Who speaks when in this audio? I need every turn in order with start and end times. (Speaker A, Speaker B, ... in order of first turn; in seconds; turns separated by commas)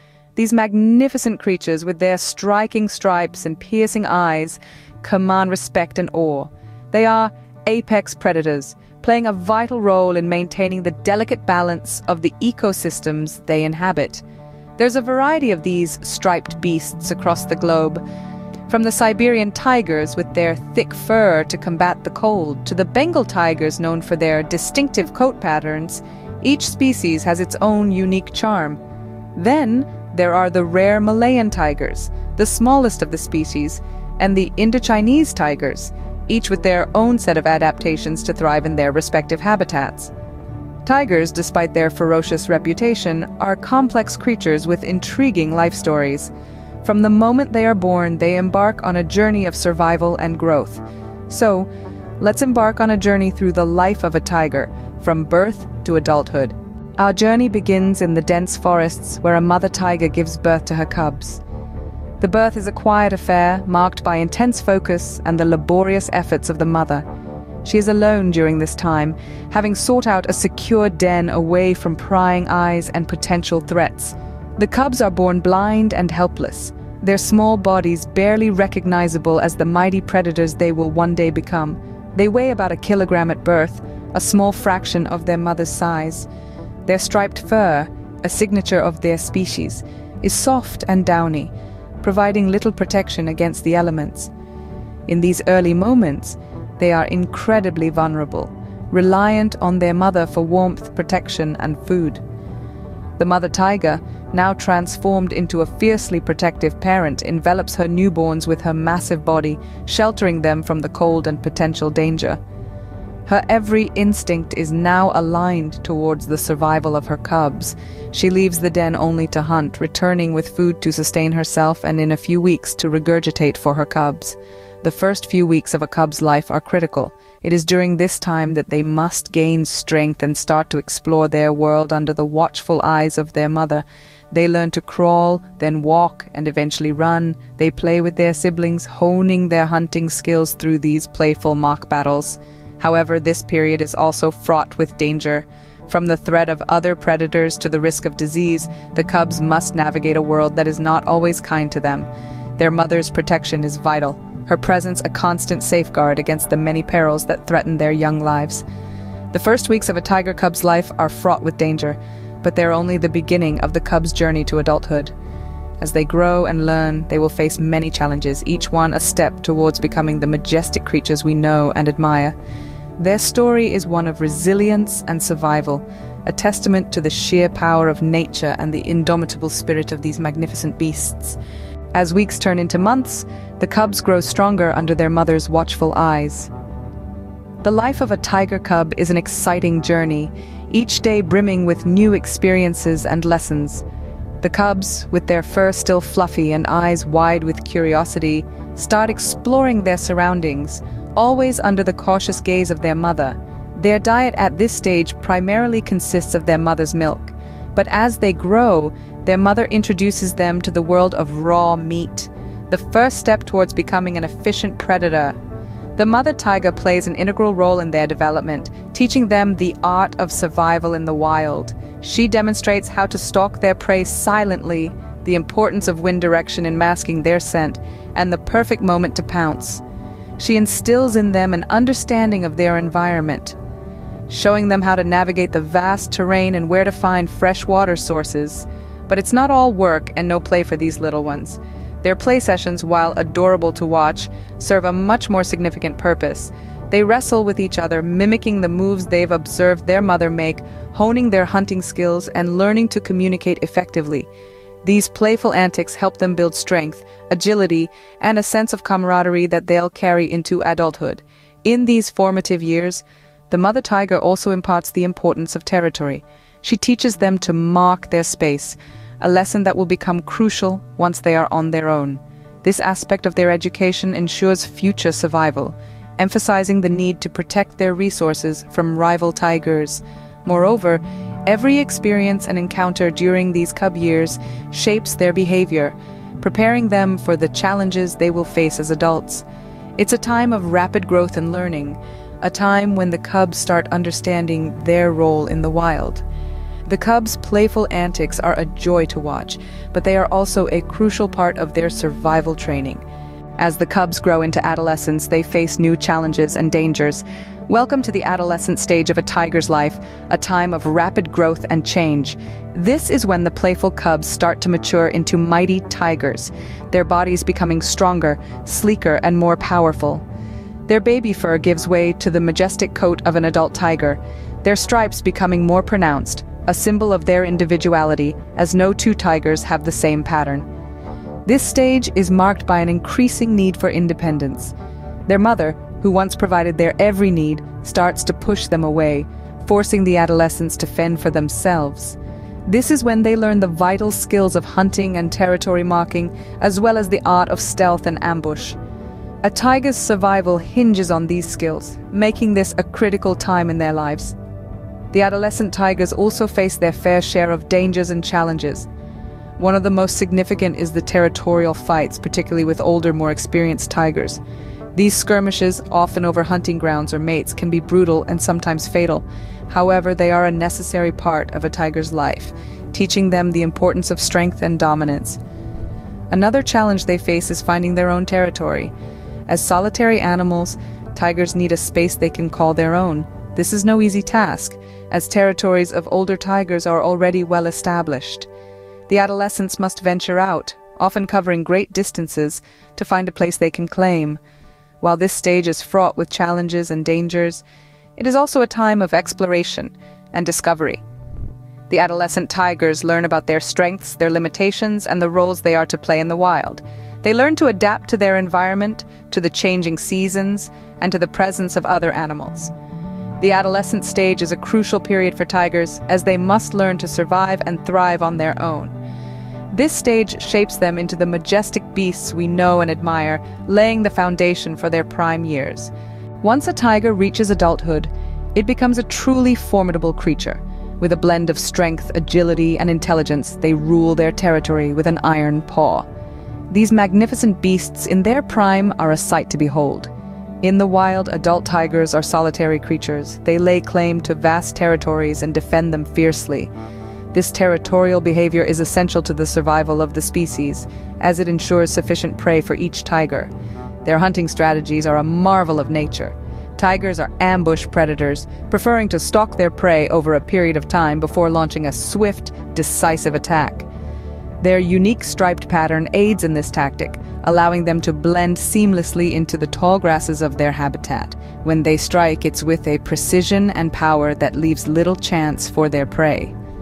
Speaker A: 0.3-14.2, Speaker A: 14.8-18.0, Speaker A: 18.7-28.8, Speaker A: 29.3-40.1, Speaker A: 40.8-46.3, Speaker A: 46.8-51.7, Speaker A: 52.2-61.4, Speaker A: 62.2-67.0, Speaker A: 67.6-86.3, Speaker A: 86.8-94.3, Speaker A: 95.1-102.2, Speaker A: 103.2-112.4, Speaker A: 113.3-158.6, Speaker A: 159.3-165.1, Speaker A: 165.8-172.3, Speaker A: 173.0-181.4, Speaker A: 181.9-186.5, Speaker A: 187.6-193.8, Speaker A: 194.4-215.3, Speaker A: 215.9-229.8, Speaker A: 230.4-233.6, Speaker A: 234.3-254.3, Speaker A: 254.8-289.4, Speaker A: 290.0-296.2, Speaker A: 296.9-303.0, Speaker A: 303.6-320.2, Speaker A: 320.9-330.6, Speaker A: 331.4-334.7, Speaker A: 335.3-348.8, Speaker A: 349.4-354.4, Speaker A: 355.1-358.9, Speaker A: 359.6-364.4, Speaker A: 364.9-375.4, Speaker A: 376.3-378.9, Speaker A: 379.5-388.5, Speaker A: 389.1-394.4, Speaker A: 395.0-397.6, Speaker A: 398.2-401.0, Speaker A: 401.9-412.7, Speaker A: 413.4-418.9, Speaker A: 419.7-425.9, Speaker A: 426.4-436.1, Speaker A: 436.7-440.1, Speaker A: 440.6-446.7, Speaker A: 447.3-453.5, Speaker A: 454.0-463.9, Speaker A: 464.6-476.5